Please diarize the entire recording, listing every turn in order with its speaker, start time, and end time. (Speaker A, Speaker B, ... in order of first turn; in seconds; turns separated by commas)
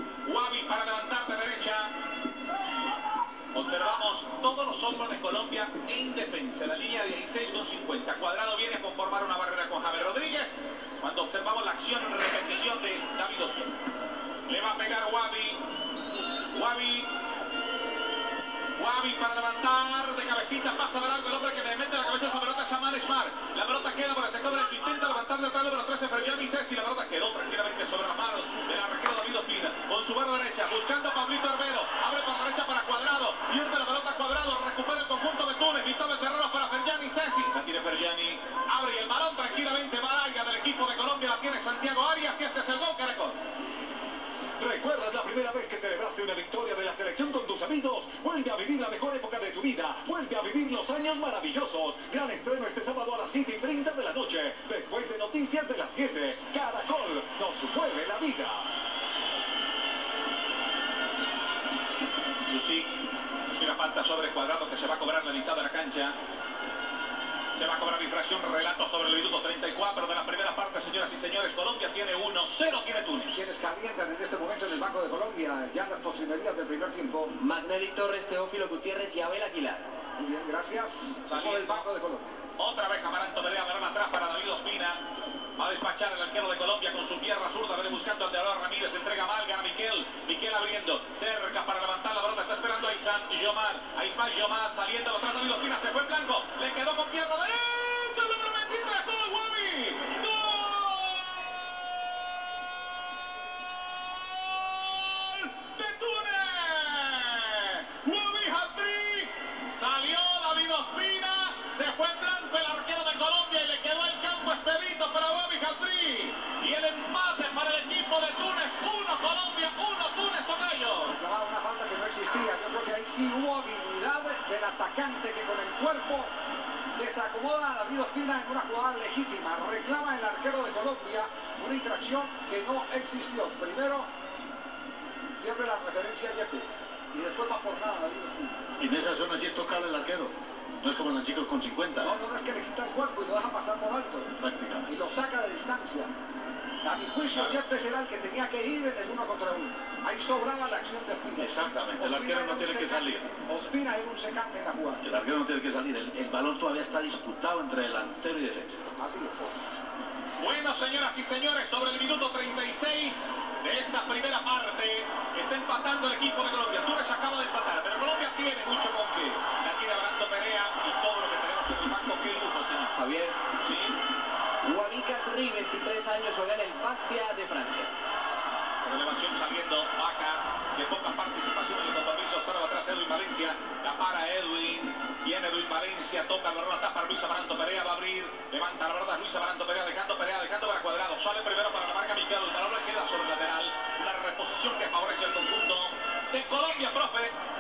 Speaker A: 0.2-1.9, Speaker A: 3.5-13.8, Speaker A: 14.5-15.6, Speaker A: 16.5-17.1, Speaker A: 18.8-43.4, Speaker B: 44.6-58.7, Speaker A: 62.5-66.1, Speaker A: 67.5-73.5, Speaker C: 73.3-77.3, Speaker D: 77.4-79.8, Speaker C: 80.2-82.4, Speaker A: 81.2-81.8, Speaker A: 82.6-85.0, Speaker A: 85.6-101.5, Speaker A: 104.5-121.1, Speaker C: 121.1-126.3, Speaker C: 126.9-134.1, Speaker C: 135.4-138.6, Speaker E: 138.8-142.2, Speaker C: 142.0-144.3, Speaker E: 144.4-144.9, Speaker C: 144.8-146.1, Speaker C: 146.8-155.0, Speaker E: 151.4-153.3, Speaker E: 155.0-158.8, Speaker C: 159.0-159.6, Speaker A: 160.4-173.0, Speaker D: 173.0-173.4, Speaker A: 173.6-174.0, Speaker D: 174.6-177.9, Speaker A: 178.8-197.3